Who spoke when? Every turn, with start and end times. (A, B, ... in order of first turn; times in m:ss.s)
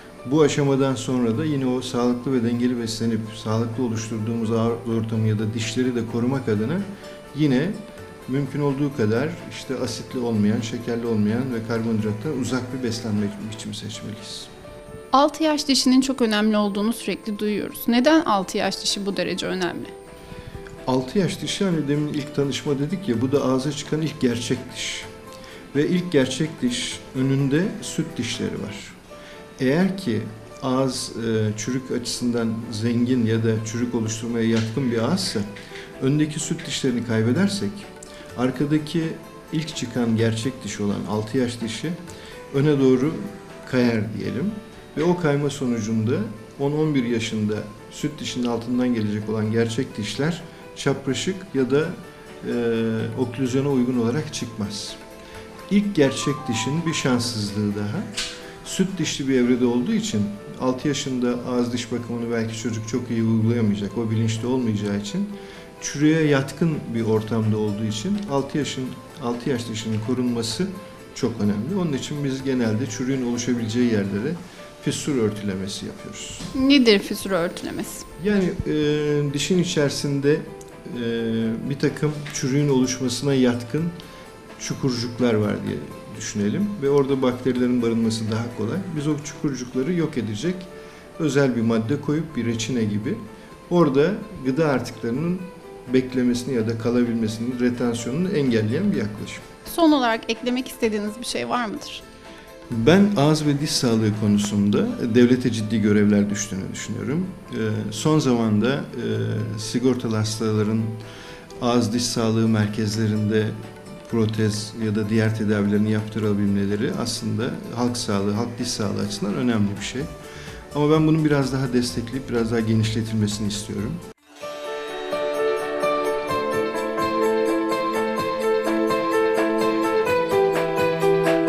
0:00.2-0:14.5 A
0:15.1-0:19.9 B
0:20.9-0:25.1 A
0:25.7-0:29.0 A
0:29.6-0:42.0 A
0:42.5-0:55.0 A
0:55.7-0:58.1 A
0:58.6-1:16.5 A
1:16.5-1:18.0 B
1:18.2-1:24.0 A
1:24.6-1:39.5 A
1:39.7-1:42.0 B
1:42.7-1:51.0 A
1:51.6-2:00.1 A
2:00.7-2:04.0 A